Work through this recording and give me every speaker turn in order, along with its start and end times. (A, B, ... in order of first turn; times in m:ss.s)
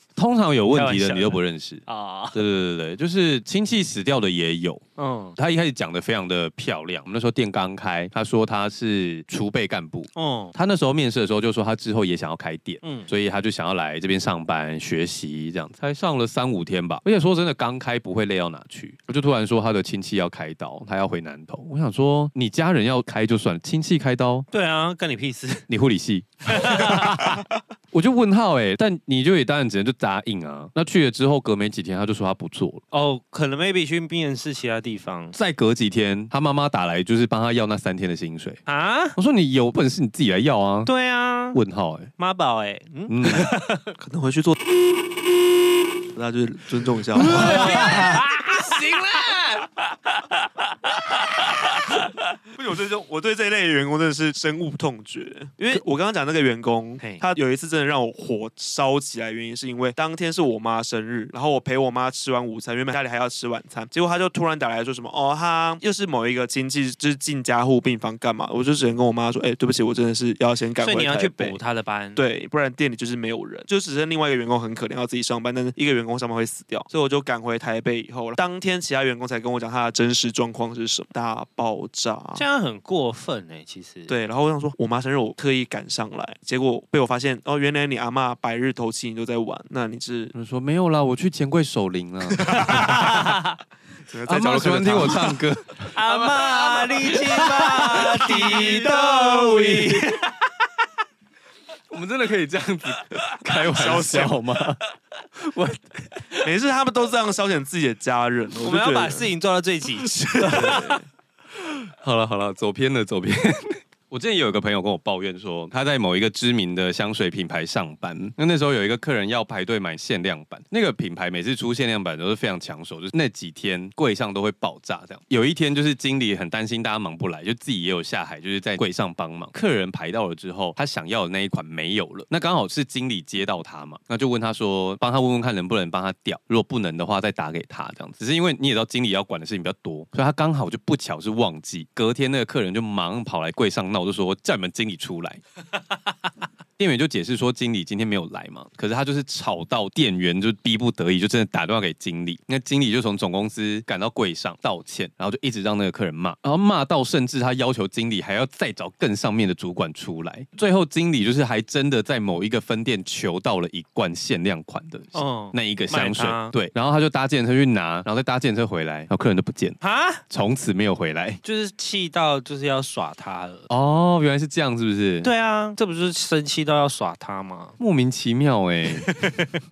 0:00.2-0:01.8 A
0:00.7-0:02.4 B
0:02.3-0:04.8 A
0:05.0-0:05.4 B
0:05.4-0:24.5 A
0:10.2-0:10.6 B
0:12.8-0:13.1 B
0:24.5-0:25.7 B
0:25.7-0:27.4 A
0:26.5-0:27.4 B
0:27.9-0:32.8 A
0:32.9-0:35.4 B
0:35.3-0:38.6 A
0:38.7-0:39.2 B
0:39.2-0:40.9 A
0:40.9-0:41.6 B
0:41.5-0:42.1 A
0:42.2-0:44.0 B
0:43.1-0:43.5 A
0:44.0-0:44.6 C
0:46.1-0:48.2 C
0:47.2-0:49.7 A
0:47.2-0:48.8 B
0:52.5-1:11.6 C
1:10.8-1:12.2 B
1:12.2-1:22.4 C
1:22.4-1:24.1 B
1:24.1-1:30.3 C
1:30.3-1:33.3 A
1:32.4-1:33.0 C
1:32.6-1:33.6 B
1:34.1-1:35.4 C
1:34.3-1:40.1 A
1:35.9-1:40.3 B
1:38.3-1:39.4 C
1:41.9-1:44.8 A
1:43.6-1:44.4 C
1:45.4-1:46.4 A
1:46.4-1:49.3 C
1:48.6-1:51.0 B
1:50.0-1:51.0 C
1:51.7-2:25.4 A
2:26.8-2:51.4 A
2:45.1-2:46.5 B
2:49.8-2:50.2 B
2:51.4-2:53.7 B
2:53.7-2:55.3 A
2:55.2-2:57.8 B
2:57.8-2:59.1 A